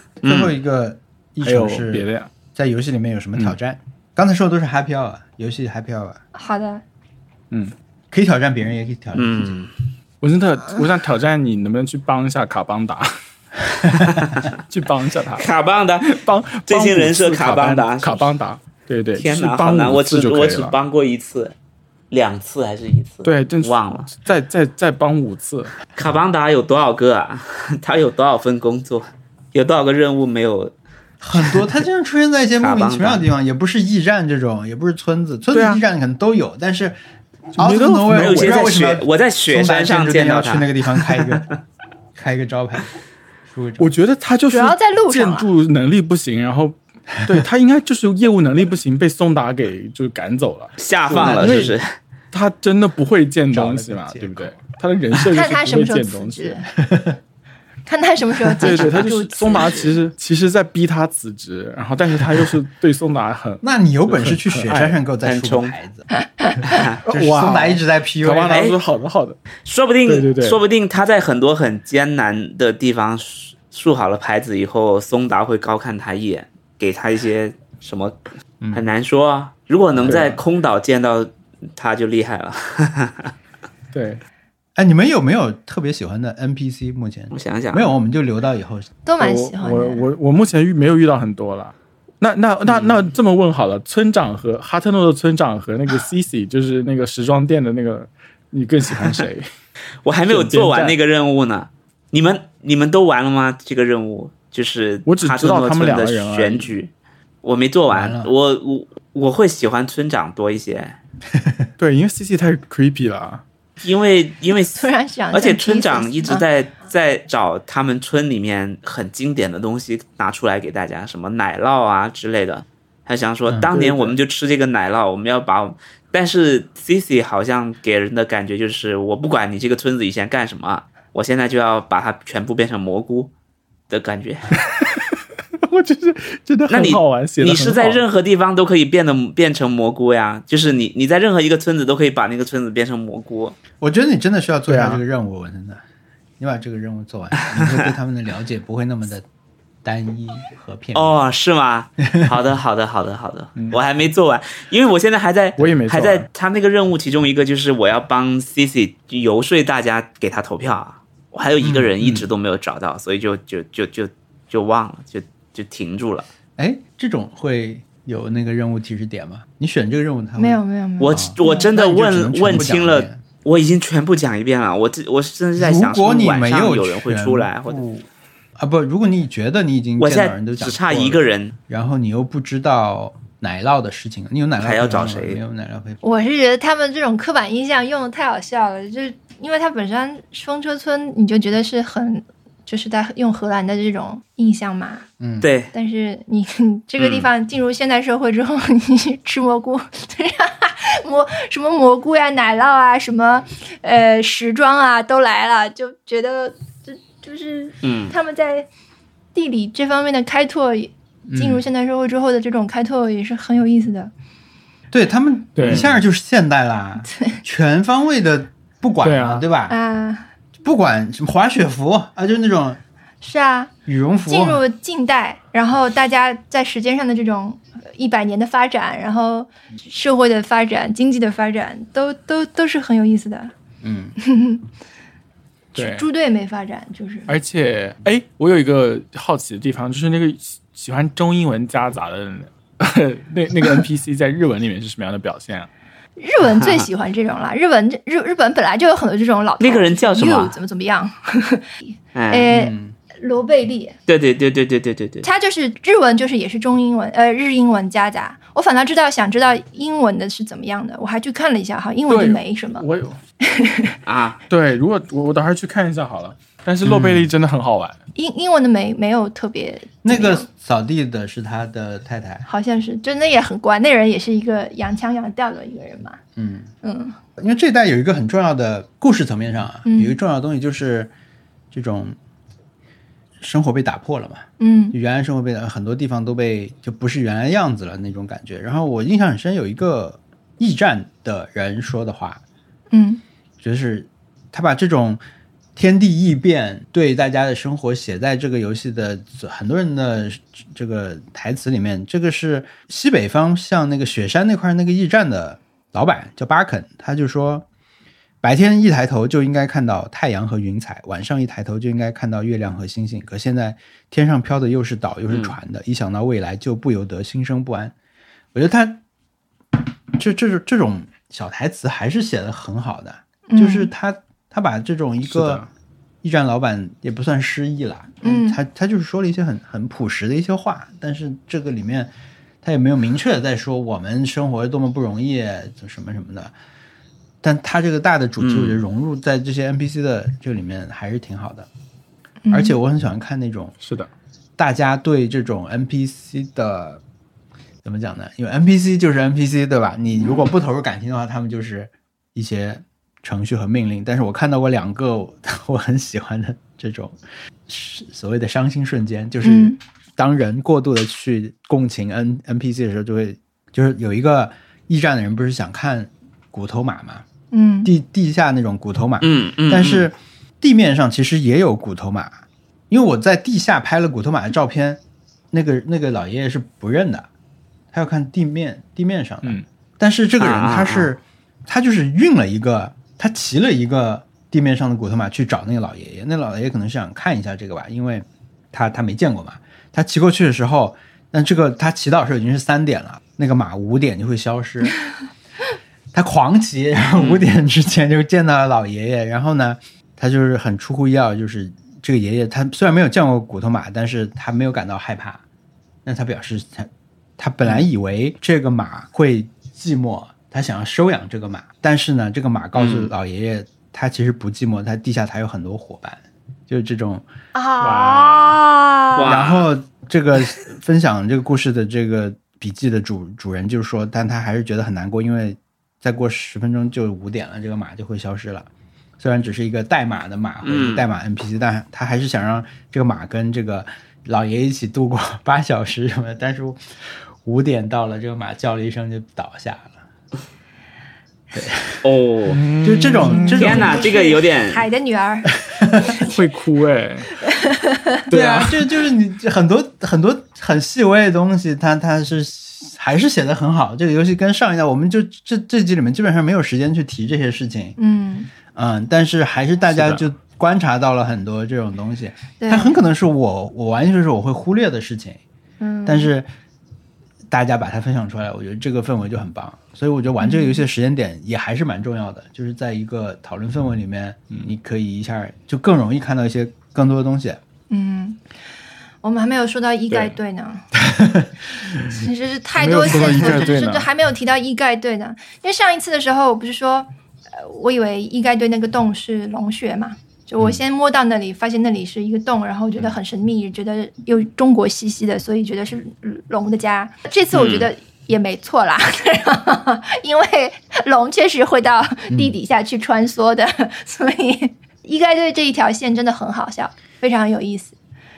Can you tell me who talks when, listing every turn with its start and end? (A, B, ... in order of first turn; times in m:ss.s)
0:00.2-0:06.2 A
0:00.2-0:00.5 B
0:01.4-0:02.3 C
0:06.3-0:06.8 D
0:08.1-0:09.7 A
0:09.2-0:09.7 B
0:10.2-0:13.1 C
0:14.2-0:14.5 B
0:14.7-0:15.5 C
0:15.3-0:18.3 B
0:16.0-0:20.8 C
0:19.2-0:21.5 B
0:22.1-0:24.1 B
0:23.2-0:25.7 C
0:26.0-0:30.7 B
0:31.2-0:37.0 A
0:31.4-0:31.6 B
0:32.6-0:33.2 B
0:35.5-0:35.8 C
0:37.6-0:41.5 A
0:37.6-0:38.7 C
0:38.1-0:41.4 B
0:42.2-0:42.9 A
0:43.5-0:43.9 A
0:43.8-0:51.7 C
0:44.5-0:45.5 D
0:50.8-0:51.9 B
0:51.1-0:51.7 A
0:52.3-0:56.6 C
0:53.5-0:54.6 A
0:55.3-0:56.7 D
0:56.9-0:57.2 A
0:57.9-1:00.0 D
0:58.6-1:05.0 C
1:03.6-1:06.1 A
1:05.2-1:05.8 B
1:06.1-1:06.8 D
1:06.7-1:07.0 B
1:07.1-1:08.7 A
1:07.1-1:09.4 C
1:08.5-1:08.8 B
1:09.6-1:18.2 B
1:10.1-1:10.6 C
1:18.7-1:23.3 B
1:19.9-1:20.4 A
1:20.1-1:20.4 C
1:23.9-1:24.2 C
1:24.8-1:28.9 A
1:27.3-1:27.9 B
1:29.0-1:30.1 D
1:29.2-1:39.5 C
1:40.0-1:46.9 B
1:40.2-1:41.0 C
1:45.1-1:46.7 C
1:47.4-1:51.0 B
1:47.9-1:48.3 A
1:51.3-1:51.7 A
1:51.8-1:53.4 C
1:53.8-2:13.3 B
1:54.7-1:56.4 D
2:03.7-2:04.2 C
2:13.9-2:14.6 B
2:14.6-2:18.0 C
2:16.7-2:23.6 B
2:23.8-2:25.8 A
2:24.7-2:25.0 C
2:26.4-2:29.2 A
2:27.4-2:27.9 B
2:29.8-2:31.1 A
2:30.9-2:46.3 B
2:35.6-2:36.3 C
2:41.6-2:42.3 A
2:46.6-2:50.6 A
2:50.4-2:51.7 D
2:51.0-2:57.8 B
2:51.1-2:53.2 A
2:55.6-3:06.0 A
3:00.0-3:01.6 B
3:04.6-3:05.4 B
3:06.0-3:15.1 D
3:15.2-3:15.5 A
3:15.4-3:15.7 B
3:15.7-3:28.7 D
3:17.0-3:17.3 B
3:27.8-3:28.2 B
3:29.4-3:34.1 D
3:31.3-3:31.6 A
3:34.9-3:39.8 A
3:35.6-3:35.9 C
3:35.6-3:35.9 B
3:37.1-3:37.4 D
3:39.0-3:39.4 C
3:39.7-3:40.3 D
3:40.6-3:42.8 A
3:43.2-3:43.7 D
3:43.9-3:44.6 A
3:44.3-3:53.5 D
3:53.8-3:54.2 A
3:54.2-3:54.7 D
3:55.7-3:57.3 D
3:55.8-3:56.1 C
3:57.3-4:05.7 C
4:06.2-4:14.0 D
4:09.6-4:10.6 B
4:12.2-4:12.5 B
4:12.5-4:13.0 A
4:14.1-4:15.3 B
4:15.2-4:22.8 D
4:22.1-4:23.2 C
4:23.4-4:24.0 D
4:24.0-4:24.4 B
4:24.5-4:28.0 C
4:26.8-4:27.3 A
4:28.2-4:30.5 D
4:30.0-4:32.5 A
4:32.4-4:36.2 D
4:36.4-4:36.7 A
4:36.8-4:37.2 D
4:37.4-4:41.1 A
4:39.8-4:40.2 D
4:41.7-4:42.2 A
4:43.4-4:52.4 A
4:44.6-4:45.0 D
4:52.9-4:53.2 D
4:53.6-4:55.2 A
4:55.8-5:07.7 A
5:08.4-5:17.9 A
5:18.5-5:19.0 A
5:19.8-5:25.6 A
5:23.5-5:23.9 D
5:25.3-5:25.7 C
5:26.2-5:32.1 A
5:28.2-5:28.6 D
5:32.6-5:36.5 A
5:37.4-5:41.7 A
5:38.4-5:38.8 B
5:42.5-5:42.8 D
5:42.5-5:43.8 A
5:43.8-5:44.1 C
5:44.6-5:47.0 A
5:47.8-5:57.2 A
5:57.7-6:07.2 A
5:59.4-5:59.8 D
6:07.5-6:07.9 D
6:07.8-6:12.4 A
6:09.2-6:10.1 B
6:12.9-6:17.3 A
6:17.9-6:35.0 A
6:20.4-6:21.1 B
6:36.1-6:45.4 A
6:37.2-6:37.5 B
6:46.0-6:57.2 A
6:52.8-6:53.1 B
6:57.5-6:59.3 D
6:57.8-6:58.6 C
6:59.1-6:59.7 B
6:59.2-7:08.7 A
7:09.2-7:20.0 A
7:10.6-7:11.1 B
7:21.5-7:22.0 A
7:22.0-7:22.7 B
7:22.5-7:24.0 C
7:22.8-7:24.2 A
7:23.2-7:26.4 D
7:23.5-7:24.8 B
7:25.7-7:26.1 A
7:26.2-7:27.3 C
7:27.4-7:28.2 D
7:28.3-7:28.8 C
7:28.3-7:38.0 A
7:38.0-7:38.5 D
7:38.7-7:45.4 A
7:40.0-7:40.2 C
7:42.6-7:43.0 D
7:45.8-7:46.3 D
7:46.1-7:46.5 A
7:47.5-7:57.6 A
7:50.4-7:50.8 D
7:57.9-7:58.4 D
7:59.2-8:00.9 D
8:00.1-8:00.4 C
8:01.0-8:01.5 A
8:02.1-8:28.0 D
8:02.8-8:04.1 C
8:03.0-8:03.8 A
8:17.5-8:17.9 B
8:22.3-8:22.6 A